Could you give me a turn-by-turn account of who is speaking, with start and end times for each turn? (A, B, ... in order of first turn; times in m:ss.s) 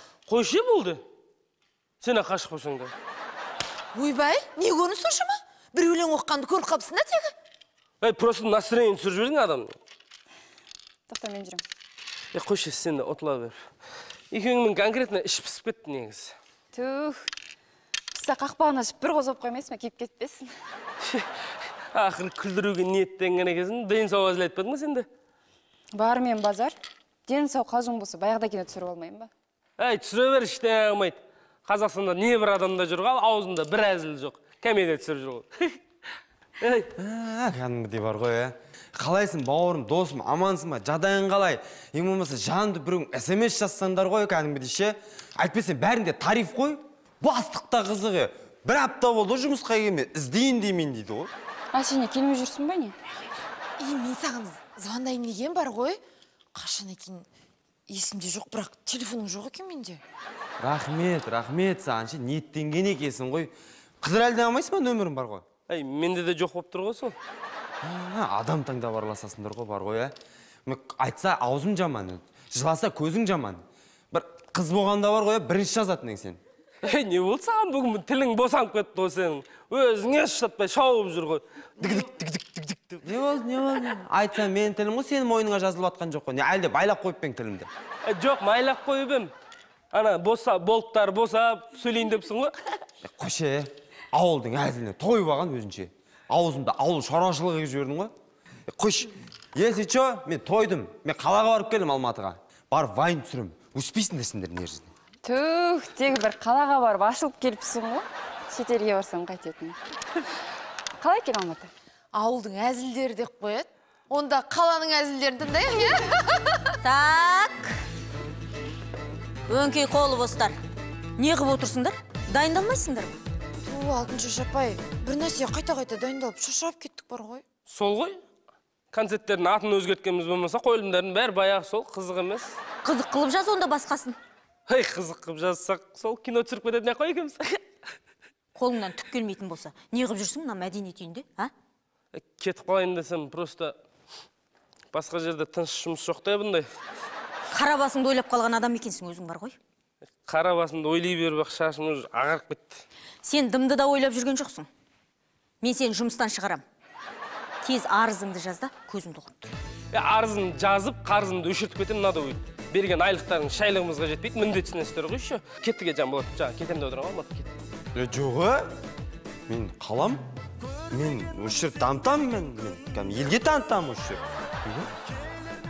0:00.3-0:01.0 A
0:02.0-0:02.9 A
0:03.9-0:07.3 B
0:08.0-0:09.7 A
0:11.1-0:11.6 C
0:12.3-0:13.6 A
0:14.3-0:16.3 A
0:16.7-0:17.3 C
0:18.1-0:20.5 C
0:21.9-0:25.1 A
0:25.9-0:26.8 C
0:27.3-0:29.3 C
0:29.8-0:35.8 A
0:36.6-0:36.9 A
0:37.0-0:51.3 D
0:51.7-0:53.0 C
0:53.8-0:56.0 B
0:56.5-0:57.3 B
0:57.9-1:00.0 B
1:00.6-1:05.4 D
1:05.7-1:07.2 A
1:07.8-1:10.1 D
1:10.7-1:16.4 D
1:16.8-1:22.3 A
1:21.8-1:27.7 D
1:28.1-1:29.3 A
1:29.9-1:32.6 A
1:33.0-1:38.1 D
1:38.7-1:44.9 D
1:45.2-1:49.8 C
1:51.0-1:51.7 C
1:52.1-1:56.6 B
1:56.8-1:57.7 E
1:59.5-2:00.6 E
2:01.2-2:03.2 E
2:03.6-2:07.4 B
2:07.7-2:08.2 A
2:08.9-2:12.6 A
2:12.8-2:14.2 E
2:14.7-2:17.6 A
2:18.6-2:21.5 E
2:22.1-2:23.8 A
2:24.9-2:26.7 A
2:27.5-2:29.6 E
2:30.2-2:32.8 A
2:33.2-2:34.7 E
2:35.6-2:36.6 E
2:37.6-2:39.5 E
2:39.9-2:47.5 A
2:47.9-2:48.7 D
2:49.5-2:50.2 D
2:50.9-2:54.9 D